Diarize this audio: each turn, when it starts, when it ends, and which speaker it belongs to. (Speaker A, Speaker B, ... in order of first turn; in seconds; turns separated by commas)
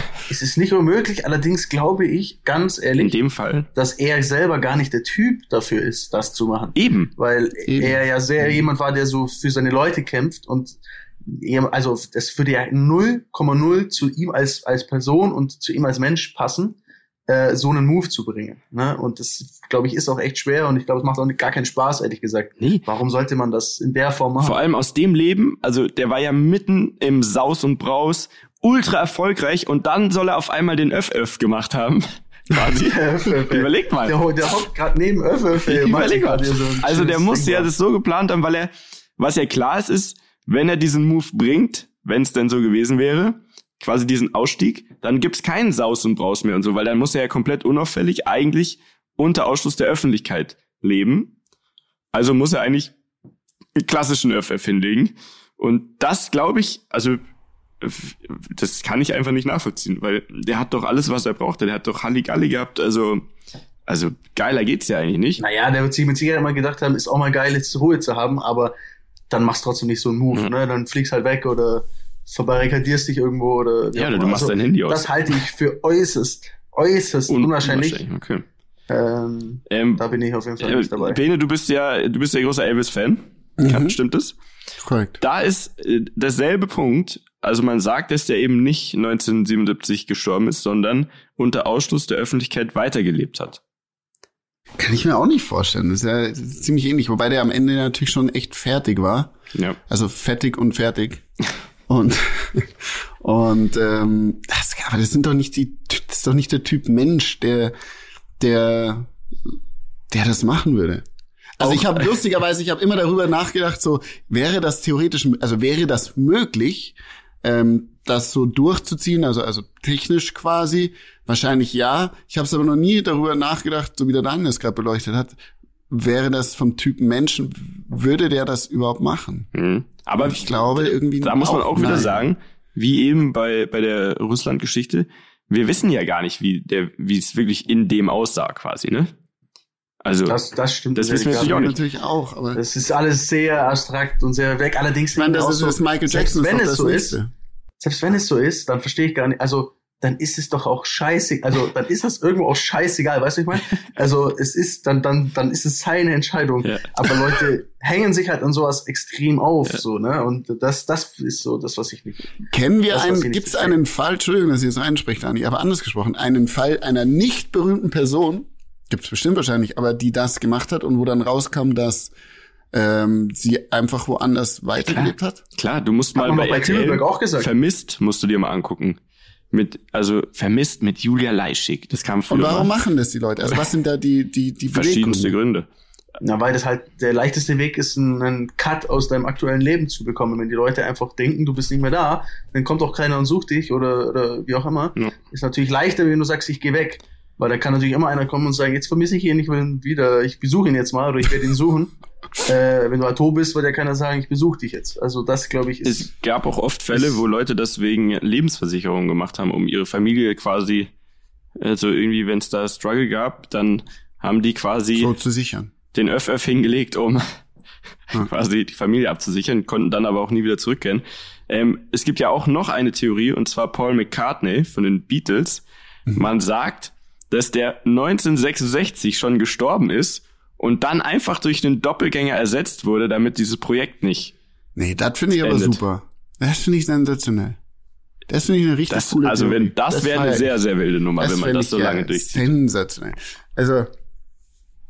Speaker A: 0.3-3.1, Speaker B: 3.0-3.7, Speaker A: 3.7-16.8, Speaker B: 6.7-7.1, Speaker C: 7.7-8.6, Speaker A: 17.3-24.6, Speaker B: 24.4-34.2, Speaker A: 32.8-37.7, Speaker B: 35.6-51.3, Speaker B: 52.1-52.9, Speaker B: 53.8-57.2, Speaker B: 57.8-63.2, Speaker B: 63.9-65.4, Speaker A: 65.4-68.7, Speaker A: 69.3-78.0, Speaker B: 73.9-75.1, Speaker B: 77.3-78.4, Speaker A: 78.9-81.2, Speaker B: 79.7-80.0, Speaker B: 80.6-84.3, Speaker C: 83.6-84.0, Speaker C: 84.8-85.2, Speaker B: 85.2-93.6, Speaker C: 94.8-99.3, Speaker C: 99.9-101.2, Speaker C: 101.9-107.7, Speaker C: 108.4-109.1, Speaker C: 110.1-111.0, Speaker C: 111.6-125.3, Speaker B: 111.6-112.1, Speaker C: 125.9-129.5, Speaker B: 129.5-139.1, Speaker C: 130.2-132.2, Speaker B: 140.0-140.3, Speaker A: 140.3-141.8, Speaker B: 140.9-141.8, Speaker C: 141.3-142.6, Speaker A: 142.5-147.2, Speaker C: 145.2-147.3, Speaker A: 147.8-163.8, Speaker B: 156.6-157.1, Speaker C: 162.5-172.1, Speaker C: 172.7-175.4, Speaker B: 174.8-179.0, Speaker A: 176.2-177.5, Speaker B: 179.5-182.7, Speaker C: 182.3-185.3, Speaker B: 184.7-185.7, Speaker A: 186.2-206.1, Speaker B: 205.8-210.9, Speaker B: 211.6-215.1, Speaker C: 214.9-215.7, Speaker B: 215.9-217.2, Speaker B: 218.1-225.6, Speaker B: 226.1-234.3, Speaker C: 234.7-237.6, Speaker B: 235.4-235.8, Speaker C: 238.3-240.5, Speaker B: 238.9-242.5, Speaker C: 241.2-243.9